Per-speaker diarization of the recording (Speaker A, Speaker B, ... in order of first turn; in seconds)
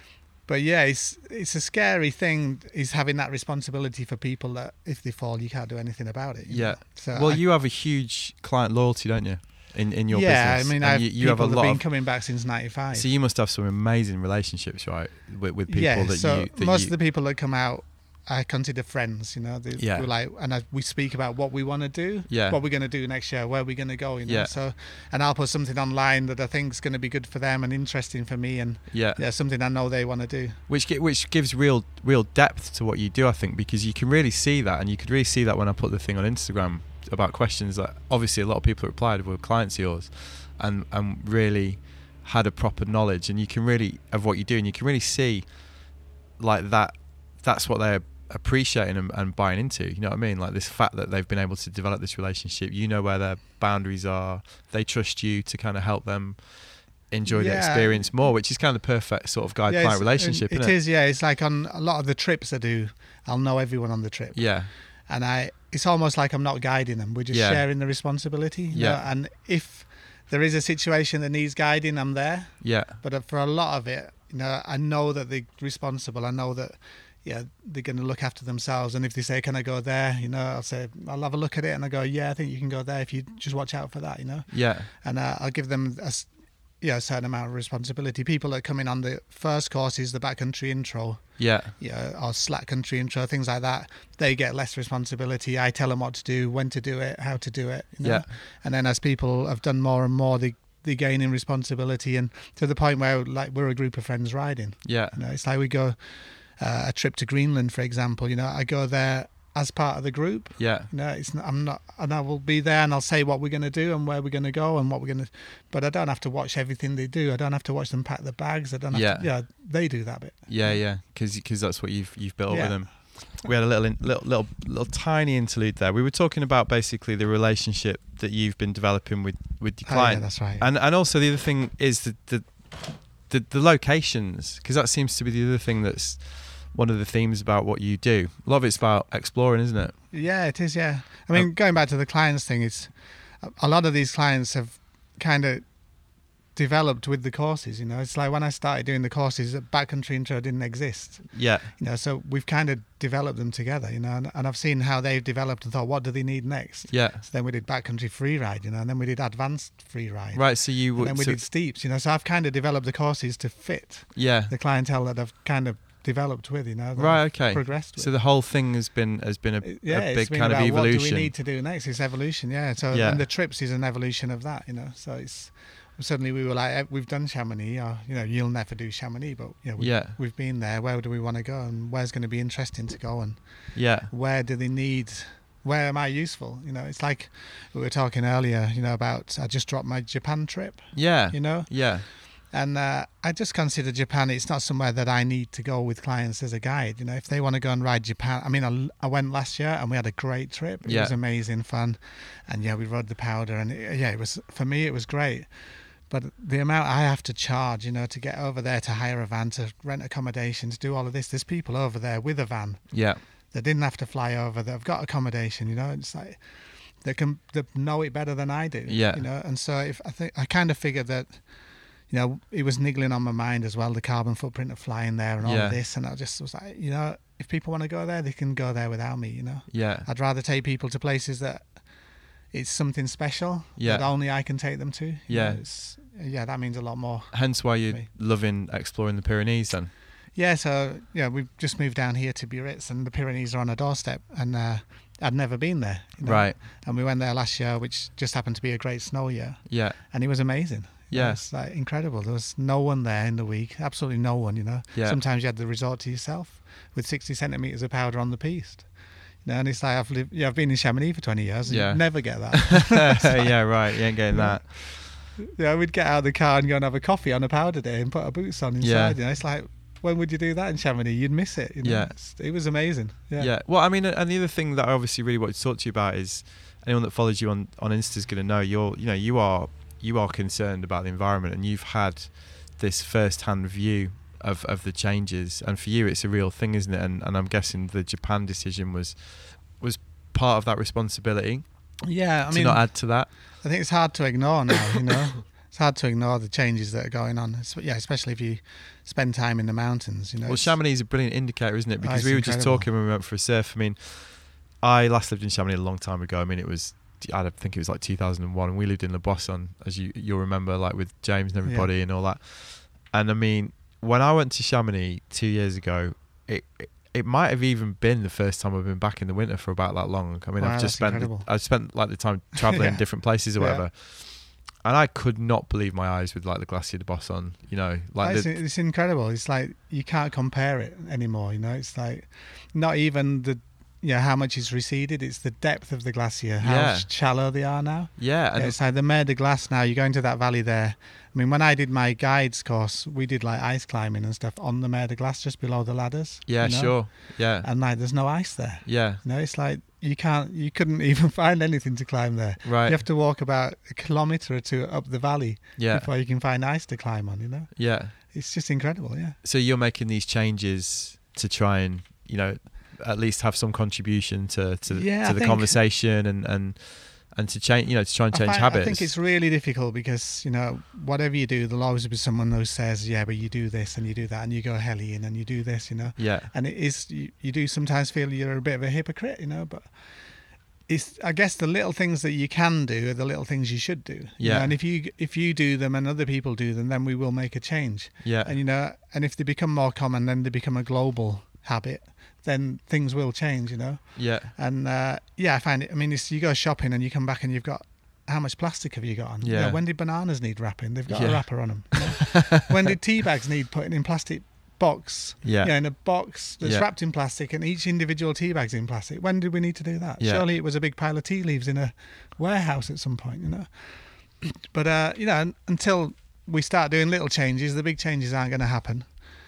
Speaker A: 0.5-7.4, 10.1-13.1, 15.7-30.6, 57.3-58.1, 59.6-86.3, 86.8-120.8, 122.5-123.2, 129.9-130.7, 140.1-145.6, 146.6-168.1, 169.6-221.4, 222.1-231.7, 232.5-238.1, 240.3-258.9, 259.4-263.6, 264.3-273.5, 292.1-300.8, 302.0-302.9, 311.6-311.9, 320.6-321.5, 322.6-323.9, 328.2-359.4, 364.9-365.8, 368.3-380.3, 380.9-419.1
Speaker B: 6.5-11.8, 12.9-16.9, 19.8-20.1, 22.3-22.6, 24.2-24.5, 28.9-29.2, 30.7-45.8, 46.4-60.7, 64.3-64.7, 67.3-67.6, 68.7-69.0, 72.6-73.0, 84.5-84.9, 91.4-91.7, 104.8-105.2, 110.6-110.9, 118.9-119.3, 120.5-139.9, 151.3-151.7, 156.9-157.2, 160.3-161.4, 164.1-164.5, 166.9-171.3, 172.9-173.2, 179.8-180.2, 183.7-184.1, 190.9-192.1, 200.8-201.1, 212.9-213.2, 218.9-219.2, 225.4-225.8, 229.7-230.1, 233.8-234.1, 235.3-235.6, 237.3-239.9, 246.2-246.6, 249.7-250.0, 251.1-251.4, 261.7-264.7, 268.8-269.2, 271.8-272.1, 273.4-291.6, 292.5-293.3, 300.4-328.6, 336.6-337.1, 338.2-338.8, 346.5-347.7, 348.8-349.2, 352.6-353.0, 355.8-356.1, 357.8-358.1, 359.4-369.1, 376.2-376.5, 384.4-384.7, 388.2-388.5, 394.1-394.5, 399.4-399.8, 401.1-402.7, 405.4-405.7